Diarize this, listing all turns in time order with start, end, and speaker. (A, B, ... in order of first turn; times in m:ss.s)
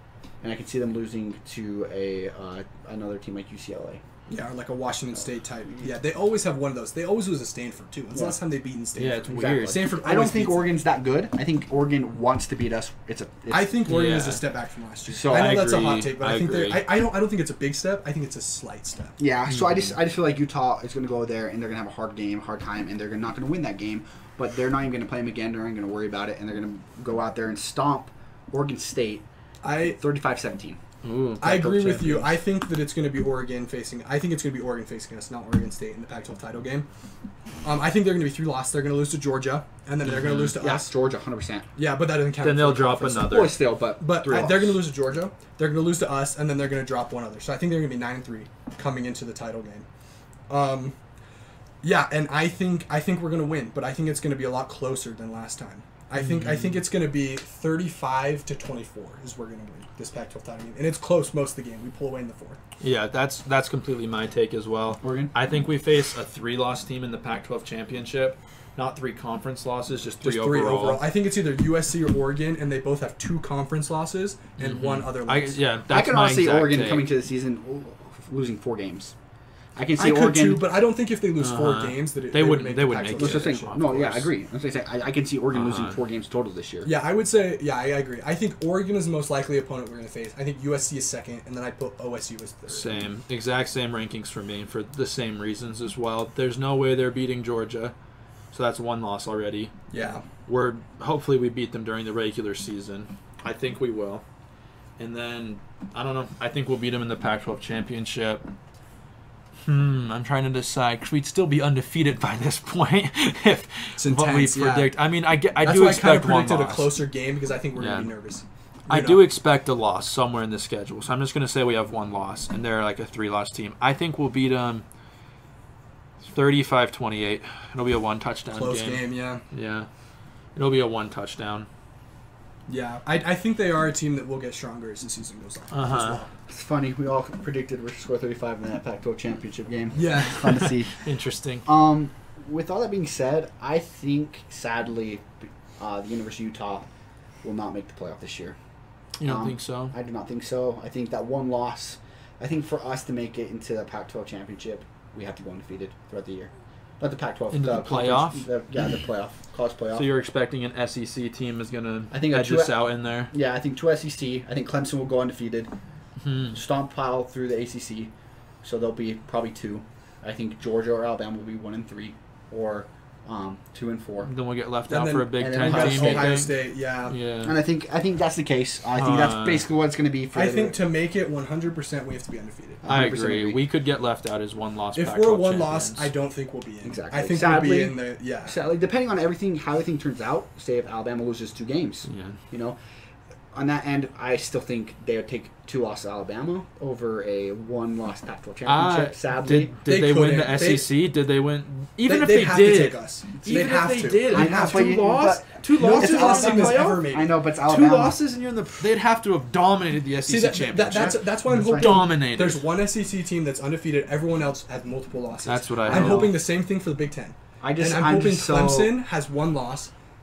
0:00.4-0:04.0 A
0:04.3-0:10.8 B
0:09.0-0:09.9 C
0:09.3-0:13.8 A
0:13.5-0:19.2 B
0:13.8-0:14.4 C
0:15.1-0:15.7 A
0:15.2-0:16.8 C
0:19.2-0:29.2 A
0:19.5-0:20.0 C
0:29.6-0:30.0 B
0:29.8-0:30.8 A
0:31.0-0:31.4 C
0:31.4-0:32.4 A
0:31.4-0:36.9 B
0:37.6-0:40.9 B
0:40.0-0:40.6 C
0:40.6-0:41.6 A
0:41.8-0:43.4 B
0:42.4-0:43.7 C
0:43.0-0:44.7 A
0:44.0-0:49.8 B
0:50.5-0:51.0 B
0:51.8-1:02.6 B
0:56.2-0:56.8 C
1:02.8-1:11.0 C
1:05.0-1:05.3 A
1:10.2-1:15.6 B
1:14.6-1:17.1 C
1:15.9-1:19.1 A
1:19.8-1:20.7 A
1:20.0-1:23.8 B
1:21.4-1:24.2 C
1:23.2-1:26.9 A
1:25.5-1:26.0 C
1:26.8-1:33.1 B
1:32.7-1:37.9 C
1:38.5-1:39.7 C
1:39.9-1:40.2 B
1:40.4-1:44.2 C
1:45.0-1:48.4 C
1:49.6-1:56.9 C
1:54.0-1:55.0 B
1:55.6-1:59.2 B
1:57.8-1:58.1 C
1:58.9-2:04.8 C
2:06.2-2:09.9 C
2:08.5-2:09.4 B
2:10.5-2:11.7 C
2:12.7-2:16.3 B
2:15.7-2:16.2 C
2:16.5-2:21.0 A
2:19.9-2:20.7 B
2:20.3-2:21.7 C
2:21.6-2:26.8 A
2:27.4-2:28.6 A
2:29.2-2:29.9 C
2:29.2-2:40.1 A
2:37.5-2:38.5 C
2:39.9-2:43.3 C
2:42.1-2:45.7 A
2:46.2-2:46.6 C
2:46.5-2:48.1 A
2:48.6-2:54.3 A
2:54.2-2:56.5 C
2:54.9-2:57.2 B
2:55.4-2:56.5 A
2:57.1-2:57.5 C
2:57.4-3:00.8 A
2:59.0-2:59.6 C
3:00.3-3:02.8 B
3:02.8-3:03.6 A
3:02.8-3:06.1 C
3:04.9-3:08.6 B
3:06.8-3:12.8 A
3:12.0-3:12.4 C
3:13.5-3:19.7 A
3:18.6-3:27.0 C
3:19.8-3:20.9 B
3:22.0-3:27.3 B
3:24.2-3:28.2 A
3:27.6-3:32.6 C
3:30.2-3:39.9 B
3:30.9-3:32.0 A
3:35.4-3:36.4 C
3:35.9-3:36.3 A
3:37.6-3:39.0 A